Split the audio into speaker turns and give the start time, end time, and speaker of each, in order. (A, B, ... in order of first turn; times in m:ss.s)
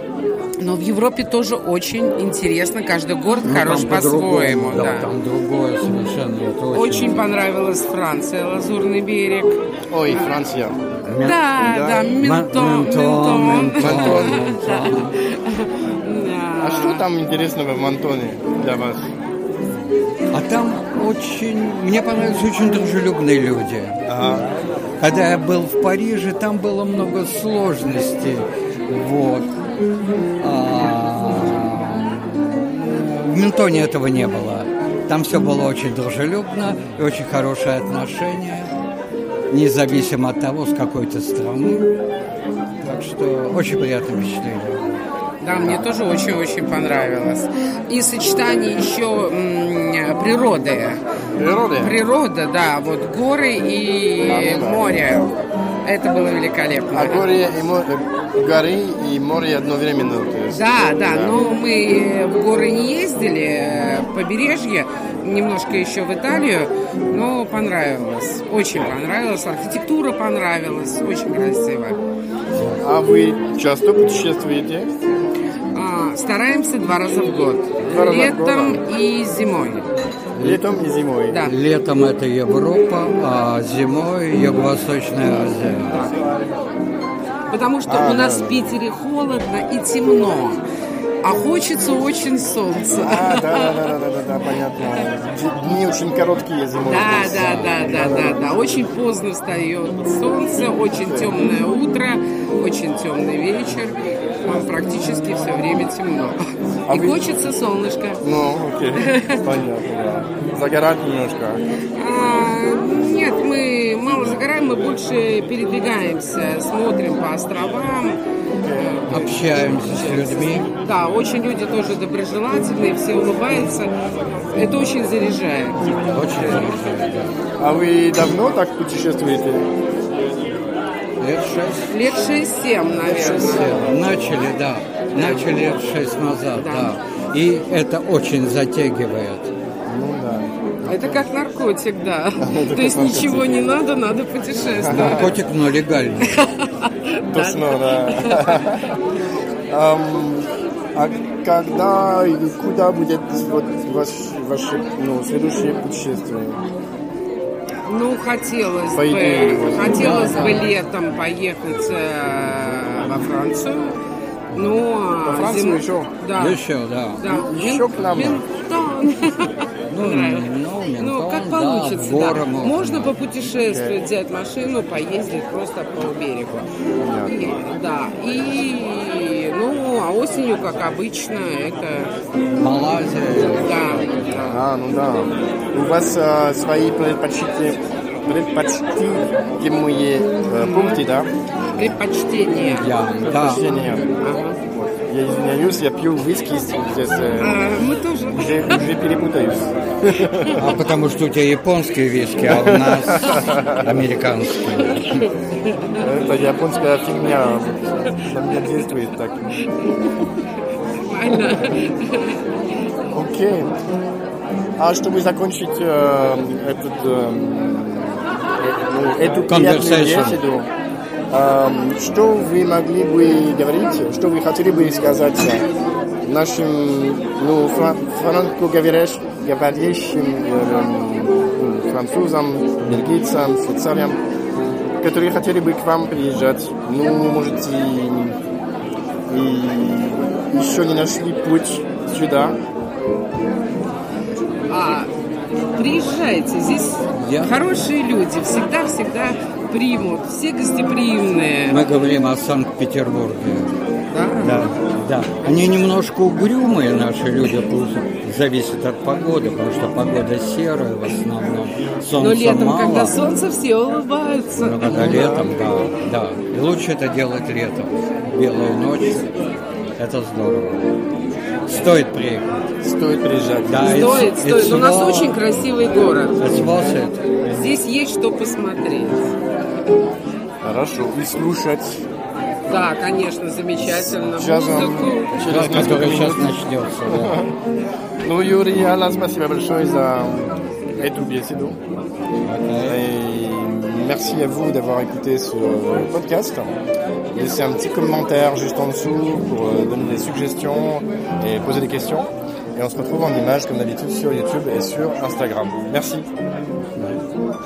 0:00.6-0:05.2 A
0:03.4-0:07.2 B
0:06.7-0:09.6 A
0:09.9-0:10.8 C
0:11.0-0:11.4 B
0:11.2-0:17.0 A
0:11.6-0:12.1 C
0:12.2-0:15.1 B
0:13.8-0:14.4 C
0:16.6-0:19.0 C
0:20.3-0:24.0 B
0:24.1-0:24.5 C
0:25.0-0:29.5 B
0:30.4-0:38.7 B
0:39.5-0:41.9 B
0:42.8-0:45.0 B
0:45.4-0:51.0 A
0:45.5-0:45.8 C
0:51.4-0:51.9 C
0:51.8-0:55.3 A
0:54.2-0:55.0 C
0:55.8-0:57.3 A
0:56.9-1:01.4 C
1:00.5-1:12.0 A
1:12.5-1:12.8 B
1:12.8-1:14.9 C
1:15.7-1:19.8 A
1:17.8-1:18.8 C
1:20.3-1:20.6 B
1:20.4-1:21.4 C
1:21.4-1:26.1 B
1:25.9-1:26.1 A
1:27.5-1:30.6 A
1:27.9-1:28.8 C
1:31.2-1:33.9 A
1:32.9-1:38.4 C
1:36.8-1:48.2 A
1:37.3-1:37.8 B
1:41.0-1:41.4 C
1:46.9-1:47.3 C
1:48.2-1:51.6 C
1:49.0-1:49.4 A
1:52.0-1:58.2 A
1:58.6-1:59.3 C
1:58.8-2:03.9 A
1:59.1-2:00.7 B
2:04.5-2:06.6 A
2:06.1-2:07.3 B
2:07.6-2:09.7 C
2:11.2-2:12.0 B
2:11.9-2:13.9 A
2:13.1-2:19.5 B
2:13.1-2:14.0 C
2:15.1-2:15.5 A
2:16.5-2:17.0 A
2:19.9-2:21.2 C
2:20.9-2:25.4 A
2:22.4-2:23.6 C
2:24.8-2:25.2 C
2:24.8-2:26.4 B
2:26.2-2:28.7 A
2:27.3-2:29.0 C
2:29.7-2:36.6 C
2:37.8-2:44.0 A
2:38.9-2:40.5 C
2:39.8-2:40.7 B
2:44.5-2:46.6 A
2:45.2-2:46.1 C
2:46.4-2:47.2 B
2:47.2-2:56.7 A
2:47.2-2:48.4 C
2:49.9-2:53.1 B
2:53.7-2:53.9 C
2:57.0-2:57.6 C
2:57.2-3:02.1 A
3:02.6-3:04.5 B
3:03.2-3:04.7 A
3:04.5-3:11.3 C
3:10.6-3:11.0 A
3:11.7-3:13.0 A
3:12.7-3:13.6 B
3:13.2-3:14.1 C
3:14.2-3:14.6 A
3:14.7-3:17.6 C
3:17.4-3:18.9 A
3:18.3-3:20.8 C
3:20.6-3:25.3 B
3:22.4-3:24.0 C
3:24.8-3:26.0 A
3:26.0-3:29.5 C
3:31.0-3:32.4 A
3:33.1-3:33.7 C
3:34.8-3:40.7 C
3:39.5-3:40.4 B
3:41.3-3:45.6 C
3:46.2-3:54.2 C
3:55.0-3:58.4 C
3:59.3-4:02.6 C
4:04.7-4:05.1 A
4:05.7-4:11.8 A
4:07.1-4:07.5 B
4:11.7-4:13.7 B
4:14.1-4:14.7 A
4:14.4-4:23.2 B
4:22.2-4:25.3 A
4:24.6-4:29.3 B
4:24.8-4:25.5 C
4:30.0-4:30.8 B
4:31.7-4:32.6 B
4:32.8-4:34.0 C
4:33.6-4:35.4 B
4:33.8-4:36.5 A
4:36.4-4:37.2 B
4:37.4-4:39.3 A
4:40.6-4:42.0 C
4:42.7-4:45.3 A
4:43.8-4:46.5 C
4:45.4-4:47.4 B
4:47.0-4:47.5 C
4:48.2-4:51.8 C
4:52.4-4:53.0 B
4:52.8-4:56.7 C
4:57.3-5:06.3 C